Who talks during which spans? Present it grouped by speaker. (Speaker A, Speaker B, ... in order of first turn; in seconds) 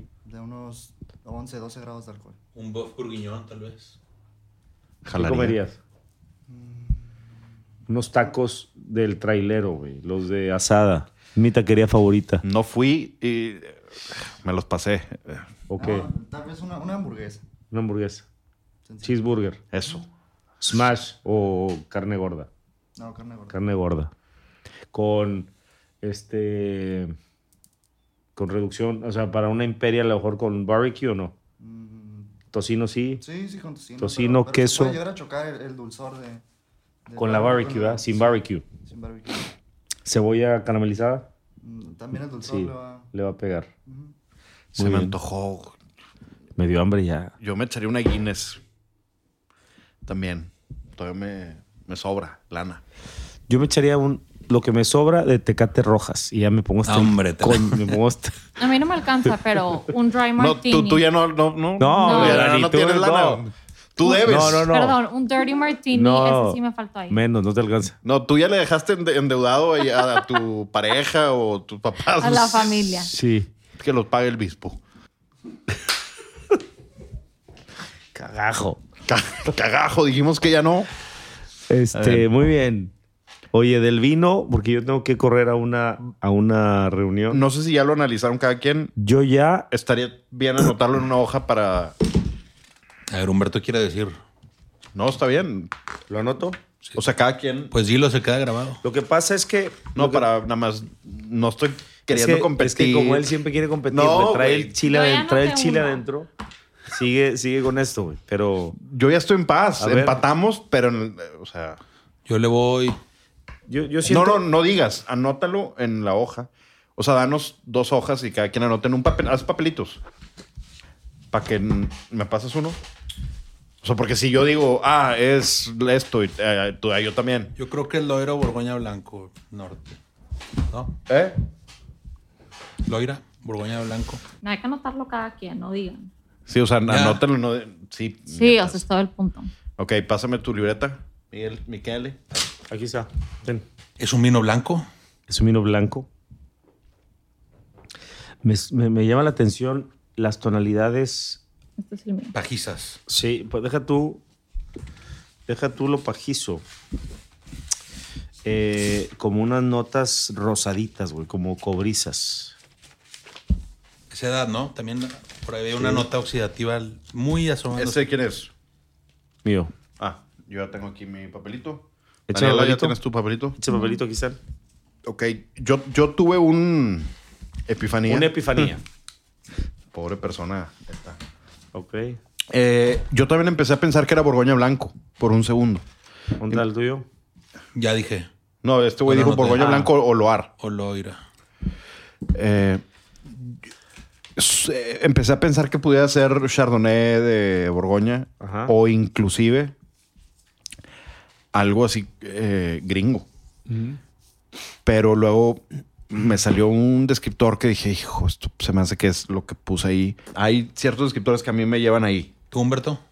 Speaker A: 0.2-2.4, 6.5-7.1, 15.8-17.4, 18.9-19.2, 23.0-23.6, 31.6-32.4, 33.2-36.4, 37.1-39.5, 41.6-43.1, 43.9-44.1
Speaker B: 2.5-4.0, 56.9-58.0, 93.1-94.2, 97.7-98.8, 112.3-113.0, 127.6-130.0, 130.7-130.9, 132.9-134.2, 136.9-137.2, 144.0-144.9, 152.3-153.0, 164.1-168.0, 187.8-188.3, 189.1-189.9, 190.6-191.2, 212.5-213.0
Speaker C: 5.0-5.6, 12.4-15.5, 19.7-20.1, 44.8-45.8, 47.4-48.6, 50.0-52.8, 60.4-64.8, 68.0-73.0, 73.8-74.8, 79.1-80.9, 81.9-82.3, 87.3-88.9, 89.7-92.0, 95.0-95.7, 97.0-97.7, 100.0-103.3, 103.9-104.8, 108.8-111.8, 114.0-120.0, 121.3-122.8, 123.8-127.5, 131.1-131.4, 136.5-138.8, 139.8-142.2, 167.7-168.5, 170.0-173.6, 175.0-177.1, 177.7-178.7, 179.9-181.2, 182.5-185.8, 188.6-190.5, 192.3-193.6, 194.4-199.8, 201.5-203.3, 204.8-212.3
Speaker D: 5.1-5.8, 7.9-12.4, 15.7-16.1, 17.7-18.3, 19.0-19.6, 20.6-22.5, 23.5-24.1, 24.9-25.5, 26.0-27.1, 28.4-31.3, 32.5-33.2, 34.0-35.0, 37.2-38.6, 40.0-41.3, 42.4-43.7, 44.8-45.2, 46.6-47.3, 53.5-58.4, 61.8-63.5, 64.2-65.0, 65.9-68.0, 73.0-73.5, 78.1-78.8, 81.7-82.9, 83.5-87.4, 89.0-89.7, 96.1-96.6, 98.8-100.3, 102.1-106.3, 106.9-108.8, 109.8-110.2, 113.7-114.5, 142.7-143.7, 145.3-146.1, 148.4-151.4, 153.1-154.2, 155.5-156.6, 158.4-162.6, 165.8-166.1, 169.4-169.7, 172.3-173.0, 173.6-174.4, 178.1-178.8, 181.7-182.2, 186.4-187.1, 189.6-189.9, 198.4-198.7, 203.7-204.0
Speaker E: 58.6-61.0, 62.0-62.5, 64.0-67.2, 72.2-73.1, 104.8-106.0, 134.4-136.1, 138.3-139.5, 151.8-152.3, 173.7-174.0